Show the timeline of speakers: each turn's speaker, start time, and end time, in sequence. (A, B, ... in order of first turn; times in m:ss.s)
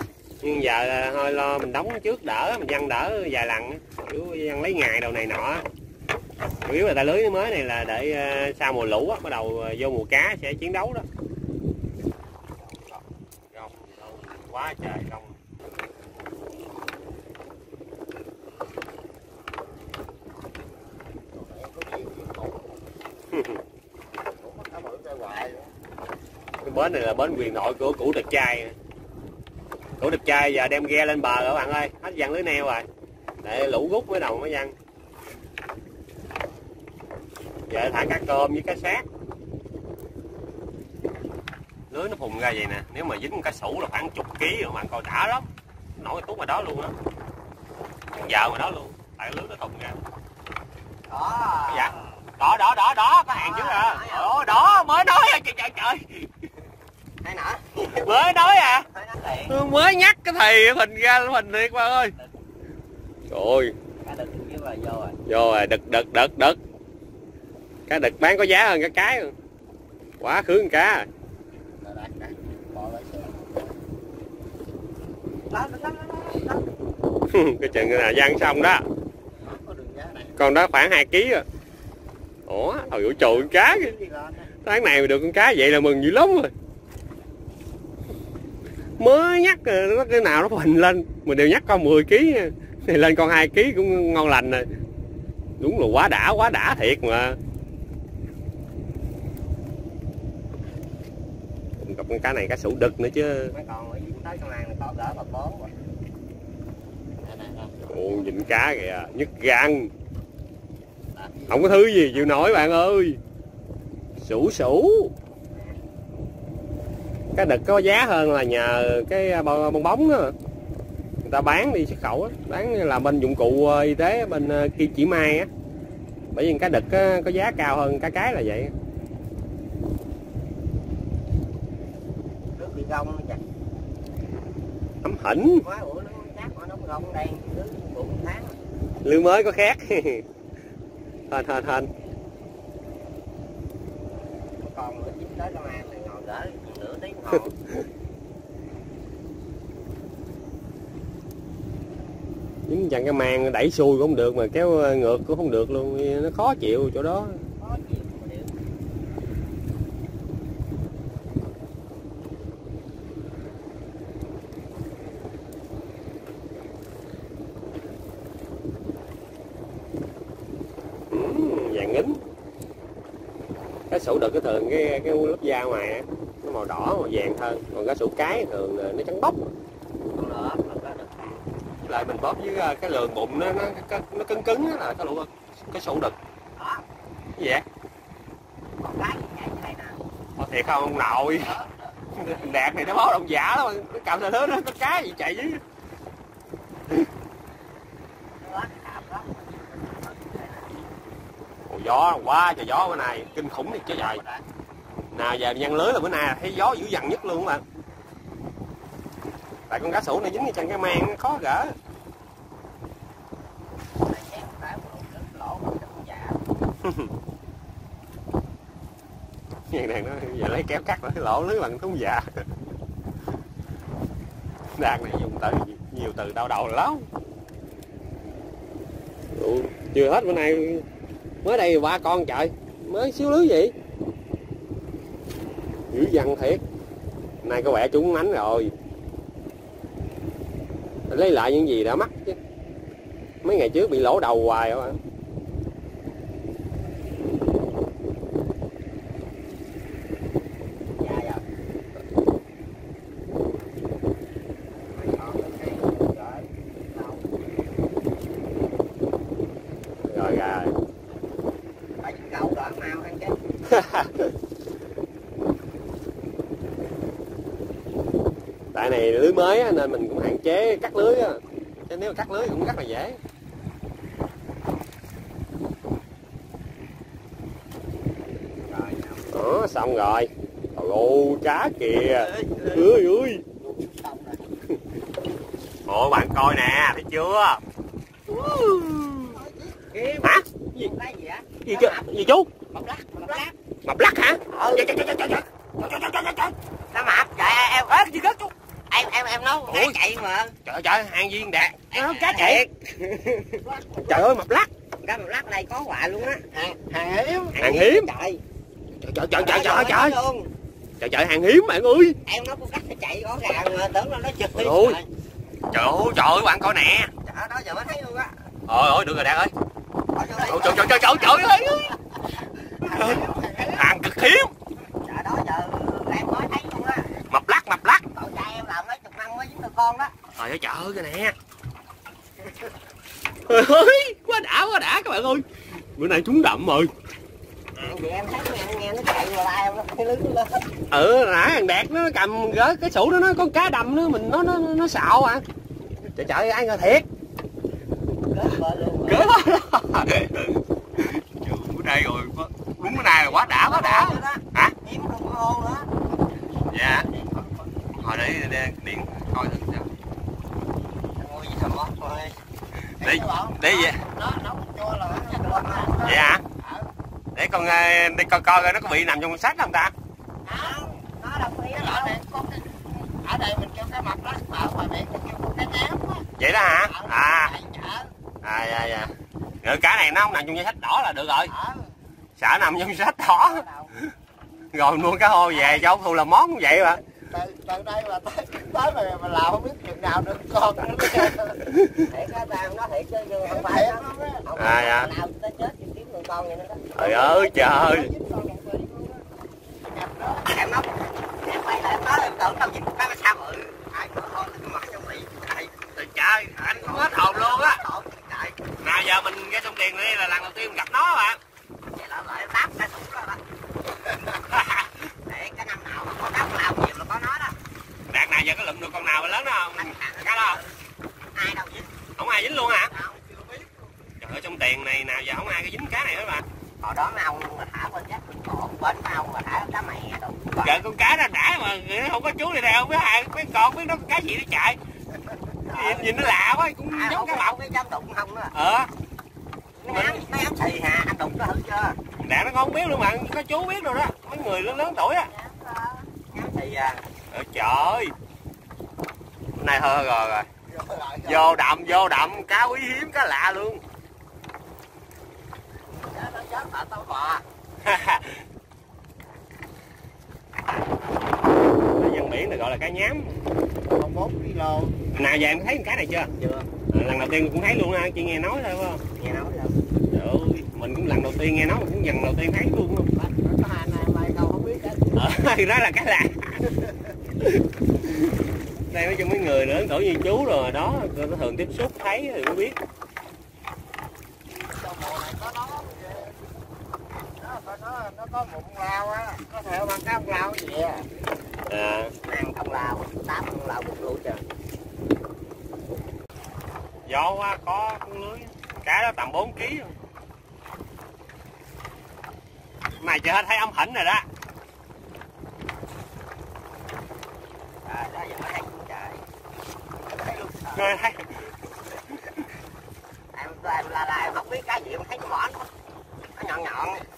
0:00.4-0:05.6 A
0:06.6-0:11.1 A
0:13.5-0:15.3 A
0:21.3-0:22.7 B
0:23.3-0:23.6 A
0:24.2-0:25.7 B
0:26.6-0:28.8 A
0:30.0-0:32.8 A
0:33.4-0:34.7 A
0:37.7-0:39.0 A
0:41.9-0:46.9 A
0:48.1-0:50.0 A
0:51.1-0:52.0 C
0:51.7-0:56.3 A
0:53.3-0:54.4 C
0:57.2-0:58.2 C
0:57.9-0:58.9 A
0:58.8-0:59.6 C
0:59.5-1:02.2 A
1:03.3-1:03.8 A
1:04.0-1:05.2 C
1:05.3-1:06.6 A
1:07.9-1:09.3 A
1:10.2-1:11.1 A
1:11.8-1:13.7 B
1:15.5-1:16.6 C
1:17.3-1:18.9 A
1:19.4-1:20.6 B
1:20.4-1:21.5 A
1:22.5-1:24.0 A
1:22.8-1:24.5 B
1:24.6-1:26.5 A
1:29.0-1:34.7 A
1:35.6-1:37.4 A
1:41.8-1:43.5 A
1:43.5-1:45.7 C
1:47.2-1:47.8 B
1:47.9-1:49.9 A
1:51.2-1:51.7 B
1:51.5-1:53.2 A
1:54.2-1:55.1 A
1:57.4-2:00.4 A
2:01.2-2:05.5 A
2:06.3-2:08.7 A
2:12.6-2:13.4 C
2:15.0-2:15.6 A
2:15.6-2:18.6 C
2:19.0-2:20.2 A
2:21.3-2:21.9 A
2:24.6-2:27.5 C
2:32.7-2:37.4 A
2:37.6-2:38.5 C
2:51.1-2:52.2 A
2:53.9-2:59.4 A
3:00.2-3:01.4 C
3:01.9-3:06.2 A
3:06.6-3:06.8 C
3:07.4-3:07.6 A
3:08.8-3:10.0 C
3:10.4-3:11.5 A
3:12.2-3:15.6 A
3:18.4-3:20.8 C
3:21.7-3:24.2 A
3:22.9-3:24.4 C
3:25.1-3:27.6 A
3:29.7-3:31.8 A
3:34.0-3:36.4 C
3:36.8-3:37.1 A
3:39.7-3:42.4 A
3:44.8-3:47.1 A
3:49.4-3:50.9 A
3:51.4-3:53.8 A
3:55.9-3:56.6 A
3:57.4-3:58.7 A
4:01.1-4:02.4 A
4:03.4-4:05.0 A
4:11.0-4:11.4 C
4:15.0-4:16.4 C
4:20.0-4:20.8 A
4:22.0-4:23.4 C
4:23.7-4:24.3 A
4:28.7-4:33.2 A
4:38.7-4:39.2 C
4:39.3-4:43.4 A
4:42.2-4:42.8 C
4:43.6-4:44.4 B
4:45.9-4:47.6 A
4:48.3-4:49.4 A
4:49.3-4:52.1 C
4:51.7-4:52.5 A
4:52.8-4:53.5 C
4:52.8-4:53.5 B
4:53.9-4:56.6 A
4:54.5-4:54.9 C
4:56.9-4:58.0 C
4:57.9-4:58.5 A
4:58.9-5:00.6 C
4:59.7-5:00.0 A
5:00.7-5:04.7 A
5:01.9-5:02.7 C
5:03.6-5:04.3 B
5:05.0-5:06.8 C
5:06.8-5:07.6 B
5:07.6-5:08.4 C
5:07.6-5:08.1 A
5:09.0-5:10.2 A
5:09.3-5:10.5 C
5:11.0-5:12.2 A
5:12.3-5:15.1 C
5:14.6-5:15.0 A
5:15.7-5:17.1 A
5:17.2-5:18.3 C
5:18.7-5:19.5 A
5:20.1-5:21.7 C
5:20.5-5:22.0 A
5:22.8-5:23.9 B
5:22.8-5:24.5 A
5:25.0-5:27.1 C
5:27.3-5:28.0 A
5:28.1-5:30.1 C
5:30.4-5:31.4 A
5:33.5-5:36.9 A
5:37.8-5:40.7 C
5:40.9-5:45.4 A
5:46.1-5:47.1 A
5:48.3-5:49.3 C
5:49.1-5:54.8 A
5:53.1-5:55.9 C
5:56.7-5:57.1 A
5:56.9-5:57.4 C
5:58.0-5:59.9 A
6:01.2-6:02.4 C
6:03.0-6:06.9 B
6:03.0-6:04.0 A
6:05.1-6:06.2 C
6:06.0-6:06.4 A
6:07.4-6:09.9 A
6:10.5-6:12.2 C
6:11.8-6:18.1 B
6:16.4-6:17.5 A
6:18.4-6:21.5 A
6:21.6-6:21.8 B
6:22.4-6:23.7 A
6:24.7-6:27.0 A
6:27.3-6:31.6 B
6:31.6-6:32.0 A
6:32.1-6:37.4 C
6:33.4-6:34.5 B
6:34.6-6:35.1 A
6:37.0-6:38.1 A
6:37.2-6:39.2 B
6:39.8-6:40.5 B
6:40.4-6:45.7 C
6:46.0-6:47.8 A
6:46.6-6:48.6 C
6:48.8-6:51.4 A
6:51.9-6:53.4 C
6:54.6-6:54.8 A
6:55.3-6:57.6 C
6:58.1-7:00.6 A
6:59.8-7:00.7 C
7:01.3-7:01.9 C
7:02.2-7:02.9 A
7:02.9-7:03.7 C
7:04.2-7:06.4 A
7:06.8-7:10.8 C
7:10.6-7:14.8 A
7:15.7-7:17.6 A
7:15.7-7:16.1 C
7:16.9-7:18.5 C
7:18.5-7:18.9 A
7:19.8-7:22.0 C
7:19.9-7:20.2 A
7:22.2-7:25.3 A
7:25.8-7:27.0 C
7:27.3-7:28.1 A
7:29.5-7:30.5 A
7:30.7-7:31.6 B
7:31.2-7:33.8 A
7:36.0-7:37.4 B
7:37.8-7:38.4 A
7:41.9-7:43.4 A
7:43.9-7:45.1 B
7:45.1-7:46.3 A
7:46.4-7:46.7 C
7:46.9-7:49.0 A
7:49.2-7:49.8 C
7:50.1-7:53.1 A
7:53.2-7:55.3 B
7:55.2-7:56.8 A
7:57.4-8:02.8 A
8:04.8-8:06.4 B
8:07.4-8:11.1 B
8:11.7-8:12.1 A
8:12.2-8:14.4 C
8:17.1-8:19.9 A
8:23.0-8:24.3 A
8:27.9-8:29.2 C
8:30.2-8:31.0 C
8:30.7-8:31.5 A
8:33.3-8:35.7 C
8:36.4-8:37.0 C